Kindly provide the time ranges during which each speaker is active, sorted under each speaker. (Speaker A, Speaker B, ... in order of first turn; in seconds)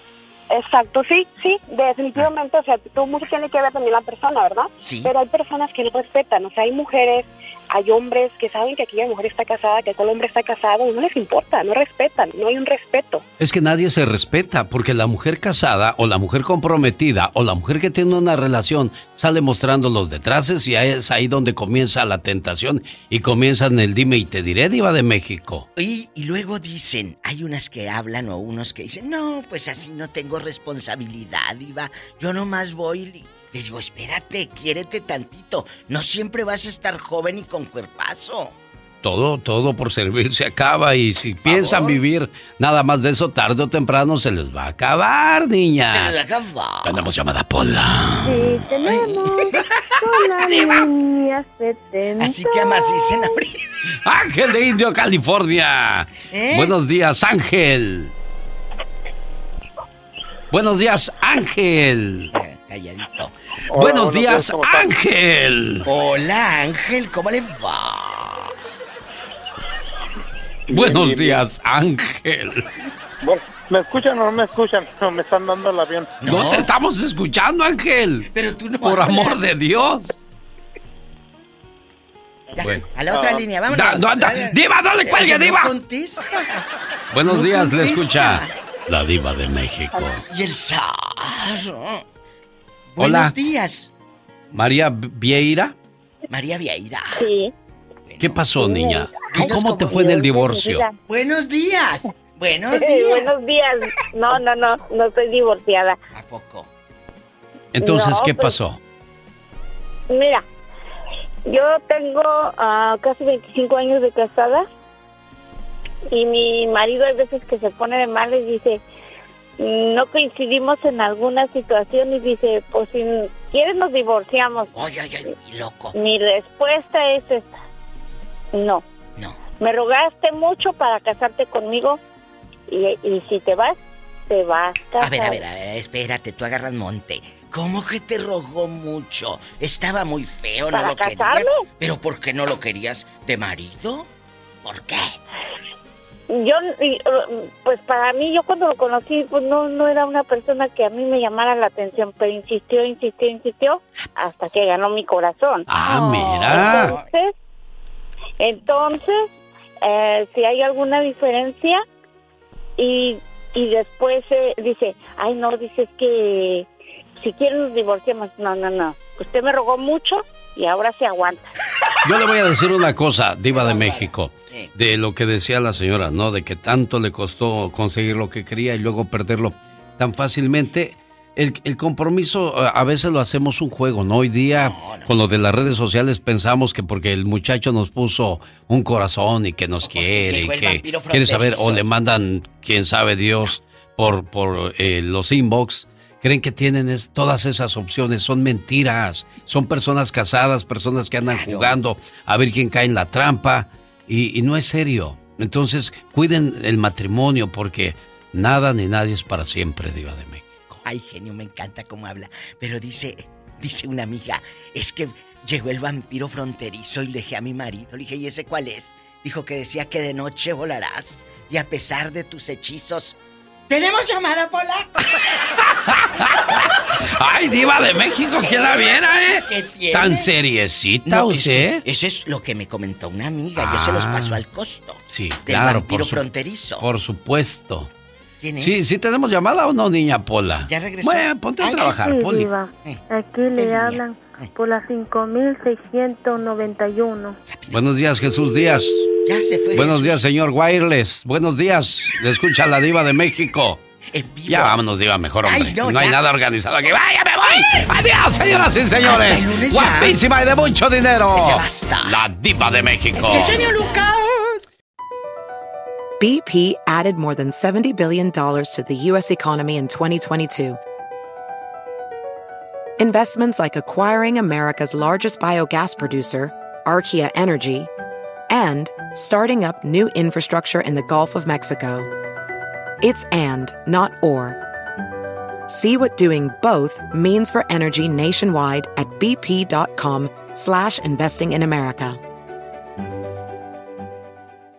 Speaker A: 0.5-13.2, 102.8-103.1
Speaker B: 4.8-5.1, 25.8-38.5, 41.4-42.0, 45.9-47.0, 48.7-49.3, 50.3-50.9, 52.2-53.5, 56.3-56.7, 62.3-63.3, 65.9-68.5, 76.2-76.7, 78.3-79.5, 82.5-86.6, 87.3-88.5, 90.3-92.0, 92.9-93.9, 96.3-97.3, 98.1-98.4, 99.3-100.0, 101.1-103.3, 106.1-106.7, 124.7-126.0, 135.0-144.1, 144.6-145.2, 155.8-157.1, 173.5-174.7, 184.6-185.2, 189.8-191.8, 201.2-201.8, 210.8-223.2, 223.7-224.9, 228.3-230.3, 231.0-236.8, 238.4-238.9, 240.7-241.9, 243.5-244.5, 247.5-247.8, 249.2-250.2, 254.1-254.8, 255.4-256.2, 259.0-260.2, 261.3-262.2, 263.1-264.6
Speaker C: 13.4-25.7, 39.0-46.2, 46.8-48.4, 54.0-58.1, 60.5-62.3, 63.8-65.8, 70.7-72.6, 76.2-78.3, 78.8-80.1, 82.6-85.7, 87.1-90.2, 93.0-93.3, 94.5-95.7, 98.2-100.9, 107.8-108.8, 155.7-157.0, 172.0-210.8, 225.6-231.8, 233.6-234.4, 235.1-236.2, 236.8-237.9, 238.6-242.5, 247.7-249.1, 249.7-253.8, 254.5-263.9
Speaker D: 48.2-53.2, 98.6-99.0, 99.9-100.9, 103.3-103.8, 104.3-104.7, 105.3-105.9, 107.9-108.4, 111.6-114.6, 116.1-118.8, 119.6-124.7, 126.0-127.4, 130.0-132.0, 132.7-133.8, 134.3-135.4, 140.7-141.4, 146.3-155.6, 156.5-157.3, 158.4-159.1, 159.8-161.8, 162.8-166.6, 167.2-171.4, 241.8-247.4
Speaker E: 63.7-64.9, 70.7-71.4, 73.2-76.1
Speaker F: 266.2-270.8, 273.0-277.9, 278.5-282.1, 283.0-284.6, 285.7-292.2